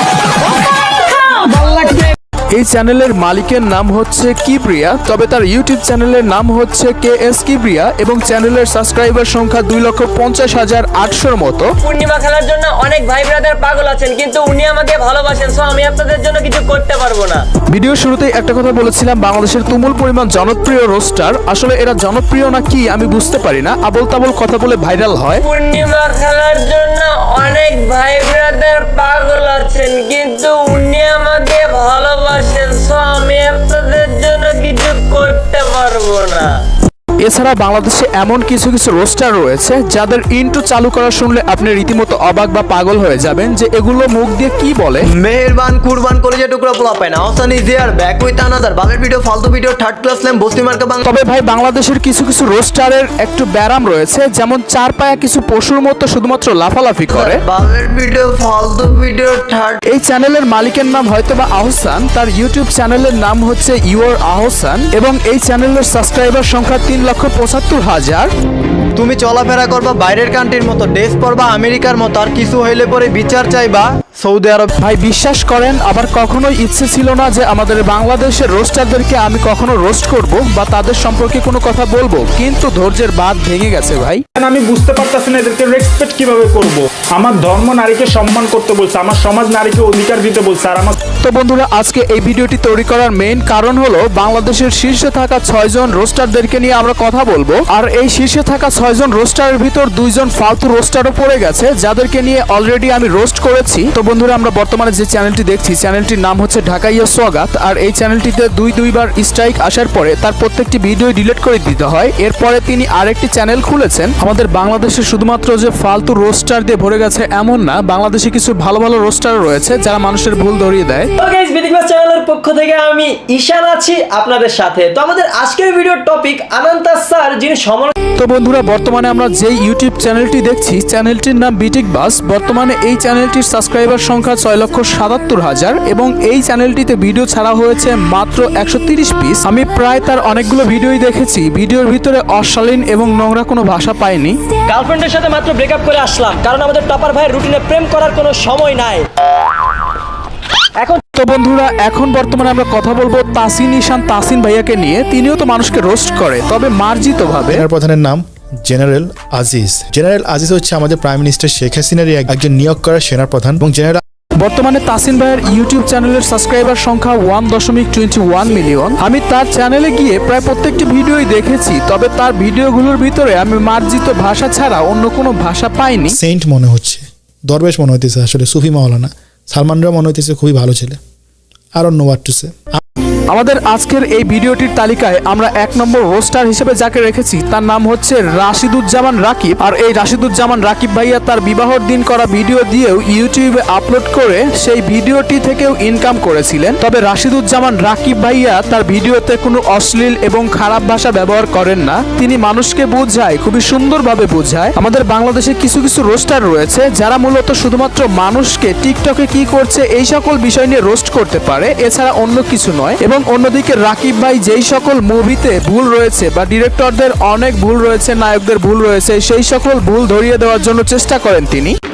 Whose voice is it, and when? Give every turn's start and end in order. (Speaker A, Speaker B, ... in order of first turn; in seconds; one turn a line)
Speaker A: 1.4-2.1
Speaker B: 2.5-11.7
Speaker A: 11.8-17.4
Speaker B: 17.7-25.4
Speaker A: 25.4-36.5
Speaker B: 37.2-45.1
Speaker C: 45.2-51.0
Speaker B: 51.0-57.4
Speaker C: 57.1-59.8
Speaker B: 59.9-68.3
Speaker C: 69.0-74.7
Speaker B: 74.8-84.2
Speaker D: 84.4-91.0
Speaker B: 91.2-121.1
Speaker E: 121.2-127.9
Speaker B: 128.2-144.4
Speaker E: 144.7-149.1
Speaker B: 151.2-157.7
Speaker F: 157.5-164.0
Speaker B: 164.4-176.2
Speaker F: 176.1-181.0
Speaker F: 181.8-182.8
Speaker B: 183.3-221.8